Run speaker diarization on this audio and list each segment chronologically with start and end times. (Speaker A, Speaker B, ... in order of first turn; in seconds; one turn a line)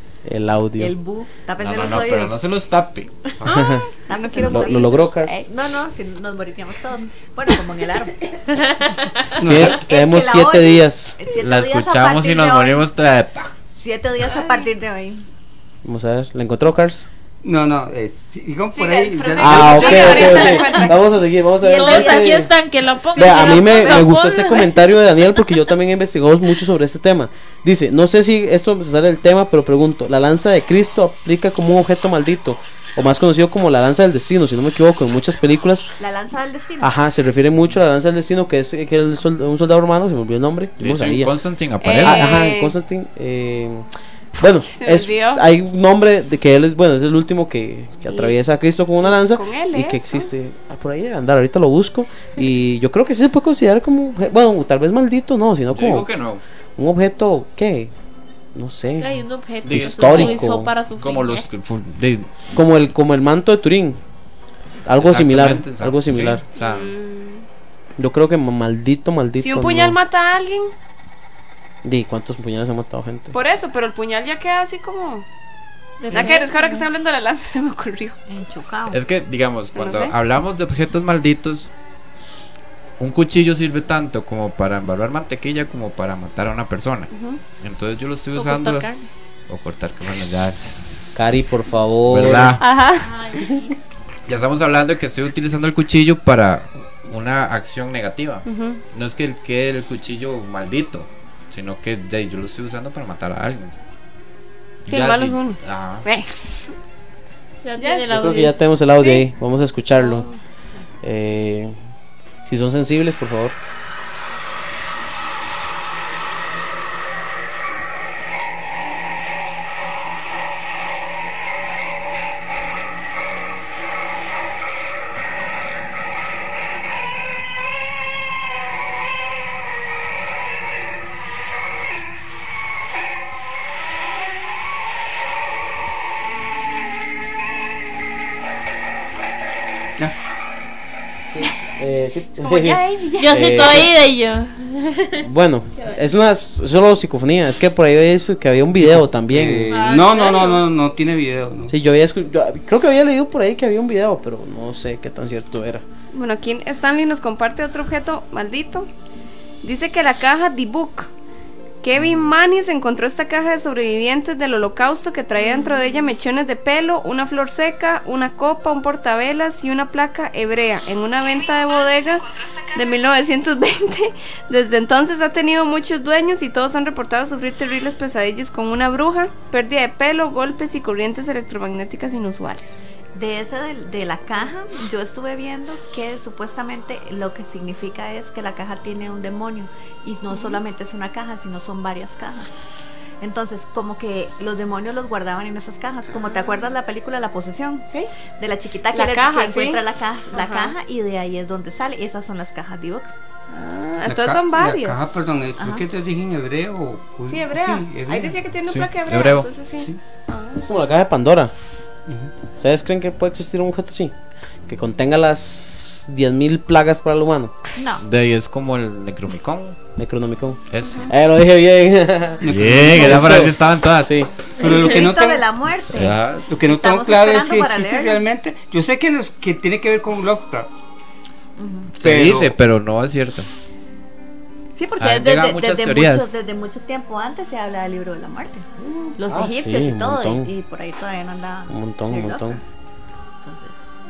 Speaker A: 0.2-0.9
Speaker B: 0.8-2.4
Speaker C: 1.6-3.6
Speaker A: 3.4-3.8
Speaker D: 3.4-5.5
Speaker B: 4.0-8.9
Speaker A: 4.4-5.5
Speaker E: 9.4-9.8
Speaker A: 9.4-11.2
Speaker B: 9.5-12.8
Speaker C: 11.4-13.5
Speaker B: 13.8-15.2
Speaker D: 14.3-14.6
Speaker A: 15.8-17.1
Speaker E: 17.4-20.4
Speaker D: 18.7-20.9
Speaker A: 19.4-22.5
Speaker B: 21.6-22.5
Speaker F: 21.8-24.7
Speaker B: 23.1-24.1
Speaker A: 23.1-35.9
Speaker B: 36.0-36.9
Speaker A: 36.8-41.3
Speaker C: 40.8-42.3
Speaker D: 41.8-42.7
Speaker A: 42.0-43.9
Speaker A: 44.4-56.1
Speaker D: 44.4-45.4
Speaker D: 48.1-48.4
Speaker D: 49.0-50.3
Speaker C: 55.7-56.4
Speaker A: 56.8-57.9
Speaker A: 58.5-60.7
Speaker F: 59.0-61.4
Speaker C: 59.6-62.4
Speaker A: 62.5-64.0
Speaker A: 64.8-66.4
Speaker C: 65.0-66.9
Speaker D: 66.5-67.5
Speaker A: 68.0-70.0
Speaker D: 69.4-70.7
Speaker A: 71.8-73.3
Speaker D: 73.3-75.2
Speaker F: 76.0-76.8
Speaker D: 76.1-78.2
Speaker B: 78.3-79.0
Speaker C: 78.9-81.7
Speaker D: 79.7-80.1
Speaker C: 83.0-88.9
Speaker D: 87.1-87.4
Speaker F: 88.3-89.1
Speaker C: 89.5-91.1
Speaker A: 91.1-92.6
Speaker C: 92.0-92.6
Speaker D: 92.6-93.1
Speaker F: 92.9-93.8
Speaker C: 94.3-103.7
Speaker D: 98.5-98.8
Speaker C: 104.8-106.0
Speaker D: 104.9-106.7
Speaker F: 107.6-108.6
Speaker D: 107.8-108.0
Speaker A: 108.1-110.2
Speaker D: 109.0-109.2
Speaker D: 110.0-110.4
Speaker A: 111.0-111.7
Speaker A: 112.4-113.5
Speaker A: 141.3-143.9
Speaker D: 142.4-143.8
Speaker F: 143.2-145.2
Speaker A: 145.2-149.8
Speaker E: 148.8-151.7
Speaker F: 149.7-150.7
Speaker A: 151.7-155.8
Speaker D: 156.1-158.9
Speaker D: 159.6-161.1
Speaker D: 161.8-182.9
Speaker B: 183.1-192.6
Speaker D: 190.3-190.6
Speaker B: 193.2-197.8
Speaker D: 196.3-196.5
Speaker B: 198.4-203.1
Speaker D: 198.9-199.8
Speaker D: 200.3-200.7
Speaker D: 203.5-205.1
Speaker E: 204.1-208.4
Speaker B: 205.6-205.8
Speaker D: 207.3-210.6
Speaker C: 208.7-209.5
Speaker A: 210.5-211.5
Speaker A: 212.6-214.1
Speaker A: 214.7-217.5
Speaker B: 217.8-218.0
Speaker C: 218.0-219.8
Speaker A: 220.0-224.3
Speaker C: 220.7-221.1
Speaker D: 220.8-221.1
Speaker E: 222.4-223.2
Speaker C: 222.5-224.1
Speaker E: 224.6-225.4
Speaker B: 224.6-228.2
Speaker C: 225.9-226.5
Speaker E: 226.5-230.7
Speaker B: 231.6-231.9
Speaker E: 232.0-232.6
Speaker C: 232.0-233.5
Speaker B: 234.7-242.6
Speaker C: 235.0-236.3
Speaker A: 239.3-240.5
Speaker A: 241.7-242.6
Speaker B: 243.4-243.8